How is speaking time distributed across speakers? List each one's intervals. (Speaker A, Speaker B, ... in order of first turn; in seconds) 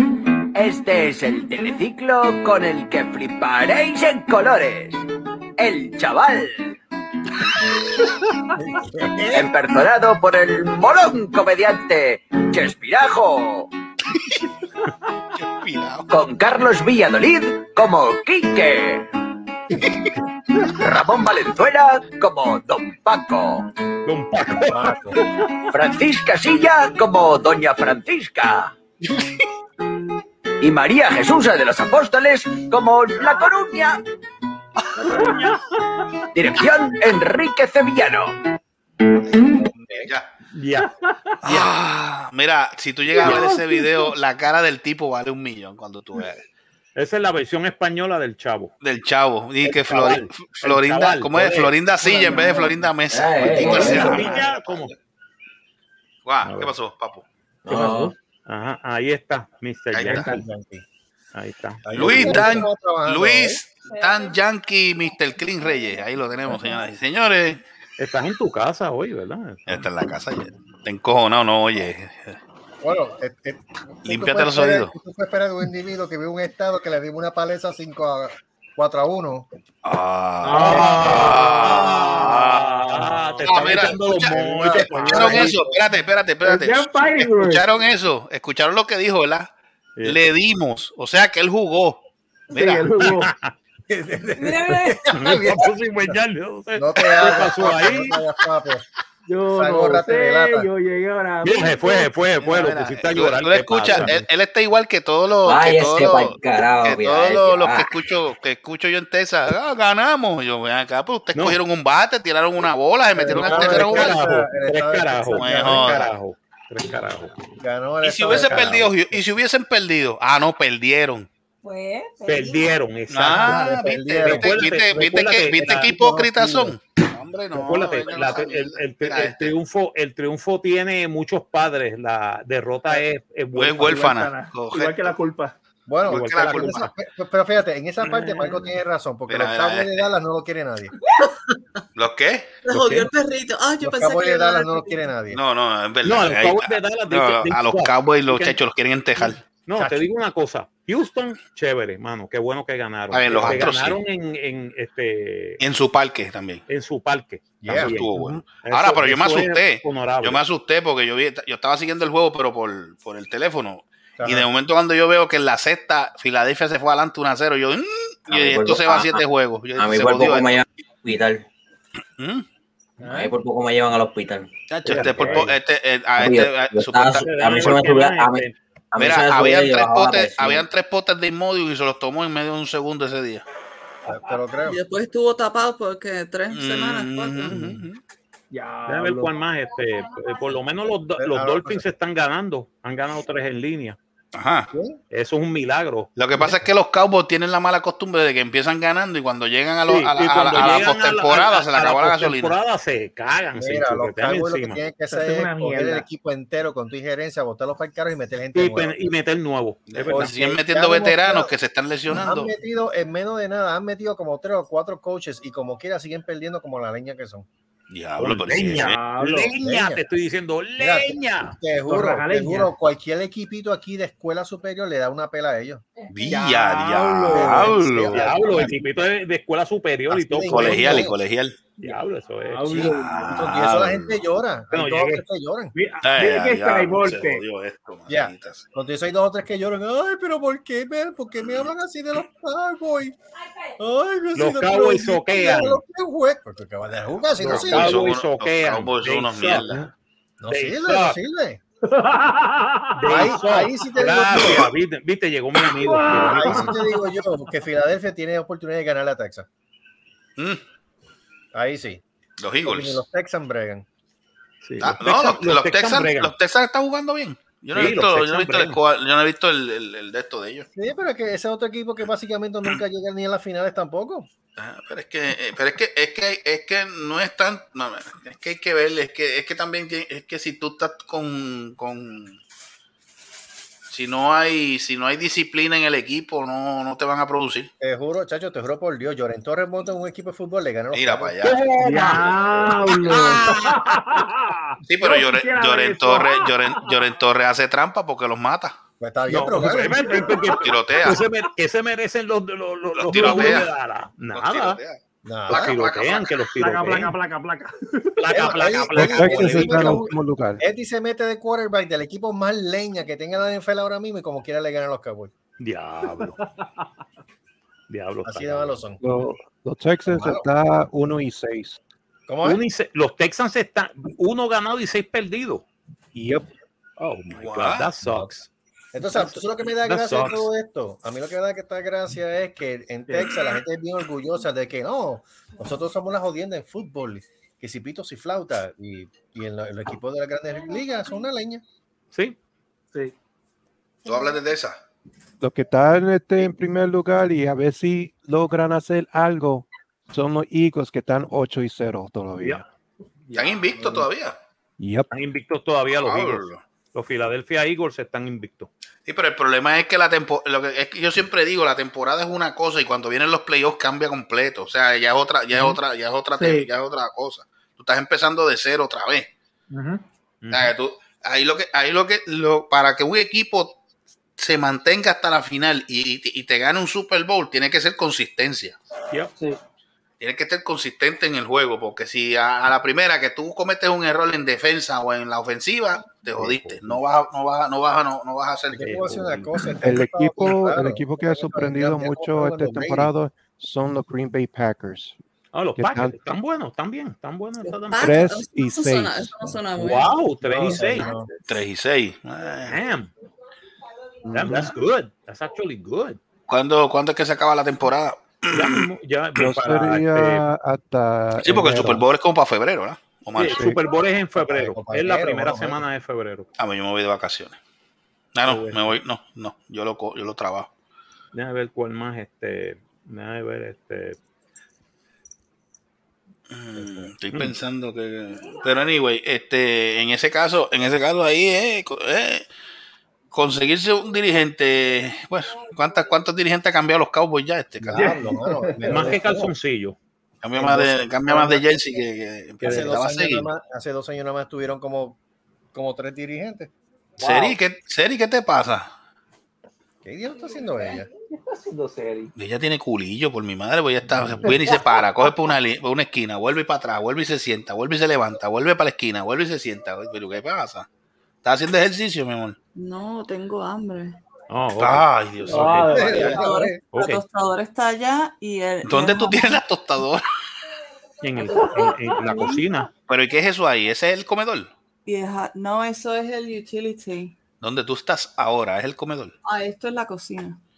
Speaker A: 0.5-5.0, 5.6-6.8, 9.3-13.7, 16.1-19.1, 20.6-23.7, 25.7-28.7, 30.6-34.0, 36.3-38.4
Speaker B: 15.4-16.1, 39.8-40.3, 41.4-46.4, 48.8-54.9, 56.2-57.3, 59.9-60.3, 61.9-67.6, 69.7-72.4, 74.0-74.9, 79.8-82.9, 83.4-89.5, 90.0-92.0, 92.5-93.1, 102.4-114.2, 115.3-116.1, 118.0-121.3, 123.1-129.5, 133.5-135.2, 136.1-136.9, 139.3-140.1, 142.0-142.5, 145.3-149.4, 153.1-154.0, 155.6-156.6, 157.7-170.7, 172.2-172.5, 174.7-177.7, 179.0-183.4, 186.5-188.0, 194.3-194.7, 196.2-202.6, 209.9-212.5, 217.9-219.0, 226.1-228.2, 230.5-231.6, 232.8-234.2, 236.0-238.7, 247.5-249.9, 262.4-263.0, 264.8-270.7, 274.6-282.4, 283.9-287.7, 290.9-293.3, 294.9-298.8, 300.6-301.2, 303.0-303.7, 304.3-306.3, 327.4-327.9, 344.1-344.8, 353.3-354.4, 355.9-356.6, 359.1-369.3, 370.5-373.8, 374.4-378.8, 380.2-389.1, 401.5-402.8, 406.5-408.9, 411.4-413.7, 416.6-417.6, 418.3-420.7, 426.5-432.5, 433.3-438.2, 440.4-443.5, 447.2-448.9, 452.4-460.9, 461.4-462.6, 464.8-466.4, 468.9-470.2, 473.1-474.7, 477.6-479.3
Speaker C: 24.1-24.9, 35.1-35.6, 40.5-40.9, 47.0-48.7, 49.6-52.6, 53.5-54.9, 56.4-56.8, 57.7-60.4, 61.4-62.6, 68.0-69.8, 80.5-85.5, 93.0-93.5, 95.1-98.2, 101.4-104.1, 111.3-111.6, 113.3-117.3, 118.3-118.7, 122.3-125.9, 127.5-134.2, 136.1-136.9, 138.1-138.6, 142.7-143.1, 146.1-148.6, 149.2-155.6, 156.7-160.4, 174.9-175.5, 177.1-178.6, 188.9-194.0, 195.1-196.1, 199.9-204.8, 208.5-210.5, 218.2-221.6, 226.4-231.1, 231.8-233.0, 234.7-235.2, 244.3-245.8, 247.4-249.9, 250.5-251.2, 253.0-256.7, 264.6-266.3, 267.7-268.8, 291.8-292.3, 299.3-304.8, 305.5-307.1, 308.2-310.1, 315.6-316.4, 317.9-318.8, 322.4-325.7, 327.0-328.5, 329.1-330.5, 355.1-358.7, 370.4-370.7, 386.3-387.0, 388.8-389.5, 395.5-398.1, 399.8-401.1, 402.7-403.1, 404.3-406.2, 408.5-410.4, 413.4-416.5, 418.5-418.9, 421.3-424.2, 438.9-440.0, 447.2-447.6, 464.5-465.9, 466.9-467.2, 471.2-472.9
Speaker D: 24.7-25.2, 60.3-60.9, 61.9-63.6, 72.8-79.5, 80.5-81.9, 83.6-85.6, 94.3-95.7, 96.8-98.9, 99.5-100.7, 113.1-116.1, 117.5-119.2, 123.3-124.8, 125.6-126.8, 128.1-128.5, 135.9-140.9, 143.8-145.4, 149.8-150.1, 153.3-153.6, 157.6-158.0, 164.2-164.5, 184.1-184.8, 191.2-191.9, 194.7-195.0, 196.4-196.7, 203.6-209.0, 210.1-211.5, 212.1-217.5, 219.6-220.1, 220.8-225.8, 227.3-228.8, 230.1-231.2, 233.3-235.7, 238.1-243.2, 243.8-248.0, 250.4-251.6, 253.1-254.7, 256.3-259.5, 261.5-262.0, 262.6-263.9, 270.8-274.3, 287.8-291.4, 299.0-300.5, 305.2-305.8, 308.3-315.3, 318.2-319.0, 320.1-320.4, 322.3-322.6, 328.0-328.3, 328.9-341.6, 388.7-393.1, 400.5-401.3, 404.3-404.7, 414.3-415.8, 437.8-439.5, 440.6-441.7, 442.6-445.2, 445.7-446.7, 450.0-451.1, 465.9-466.8
Speaker E: 35.1-35.6, 43.2-43.9, 60.1-60.4, 85.0-85.5, 86.4-87.7, 92.5-93.3, 99.3-102.1, 133.9-135.6, 173.0-173.3, 174.9-175.4, 188.5-189.3, 205.1-206.0, 218.8-219.5, 221.9-222.7, 226.3-227.7, 231.8-233.3, 235.8-237.4, 251.9-253.3, 253.9-254.6, 255.6-257.1, 291.8-296.9, 299.9-300.4, 306.6-308.1, 333.1-333.6, 353.3-354.1, 366.4-366.7, 369.7-370.0, 437.9-439.3, 451.3-452.3, 454.4-455.0, 465.5-466.6, 471.5-472.0
Speaker F: 53.1-54.4, 57.7-58.1, 105.5-107.9, 168.3-169.2, 169.8-171.4, 173.0-174.5, 176.2-180.7
Speaker G: 63.9-64.4, 65.6-66.8, 94.6-94.8, 121.6-122.8, 190.2-190.5, 226.0-226.4, 243.4-243.8, 428.4-428.6
Speaker H: 142.7-145.1, 184.7-187.5, 397.9-400.1, 462.8-464.2, 466.2-469.6, 471.4-472.6, 475.1-477.4, 479.4-480.6
Speaker I: 308.9-310.6, 319.0-321.8, 326.1-326.5, 345.4-352.6, 354.8-355.1, 389.8-395.2, 395.8-396.4, 398.0-399.9, 400.5-401.3, 409.4-412.1, 413.6-413.8